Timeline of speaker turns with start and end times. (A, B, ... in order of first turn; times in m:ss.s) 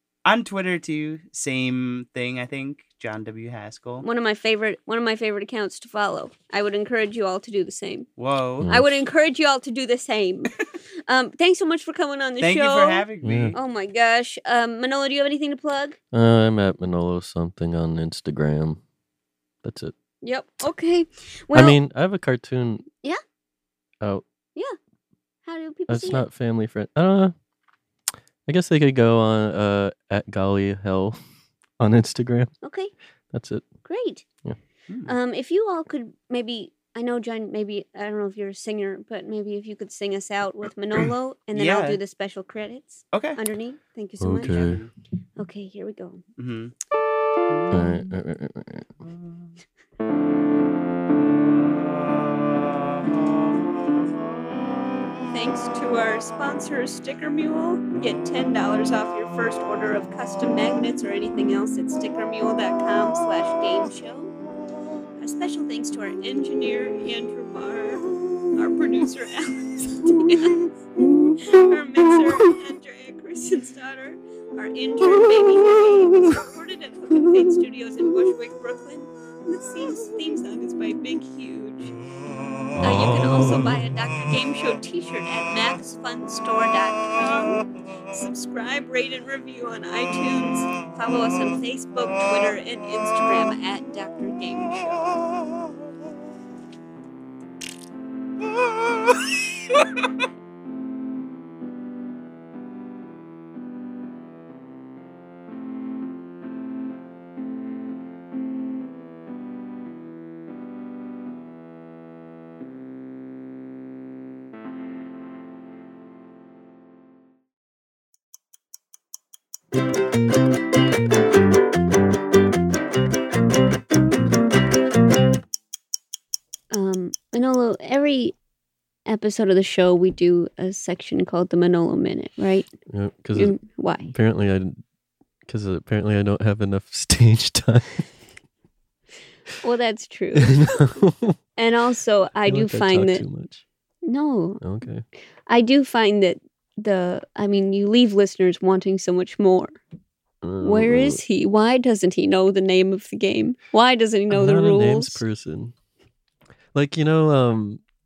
0:00.2-0:04.0 A
0:04.0-0:08.1 B
0:08.2-0:08.7 A
0:08.6-0:08.9 C
0:08.7-0:10.5 B
0:11.1-0:16.0 B
0:12.4-0:13.6 A
0:13.2-0:13.6 C
0:16.1-0:18.8 C
0:19.6-0:19.9 C
0:20.2-0:21.8 B
0:21.5-0:22.8 C
0:25.4-0:26.2 B
0:25.9-0:27.3 C
0:28.5-0:31.2 C
0:31.8-0:32.5 C
0:32.6-0:32.9 B
0:33.3-0:33.7 C
0:33.8-0:34.2 B
0:35.1-0:44.8 B
0:41.5-0:42.0 A
0:43.1-0:43.4 A
0:44.2-0:44.8 C
0:45.4-0:46.2 B
0:46.4-0:46.7 A
0:47.7-0:48.9 C
0:55.3-1:04.3 B
1:05.2-1:10.7 B
1:11.4-1:22.0 B
1:22.8-1:23.8 C
1:22.8-1:35.2 B
2:06.7-2:08.3 B
2:09.1-2:12.7 B
2:12.9-2:13.6 C
2:13.4-2:14.1 B
2:14.1-2:14.8 C
2:15.5-2:18.0 C
2:19.6-2:20.6 B
2:20.4-2:21.4 C
2:21.6-2:23.2 B
2:22.5-2:23.6 C
2:24.0-2:24.6 B
2:24.6-2:25.0 C
2:25.5-2:29.8 B
2:30.4-2:31.2 C
2:30.6-2:35.2 B
2:34.3-2:35.7 C
2:36.7-2:37.8 C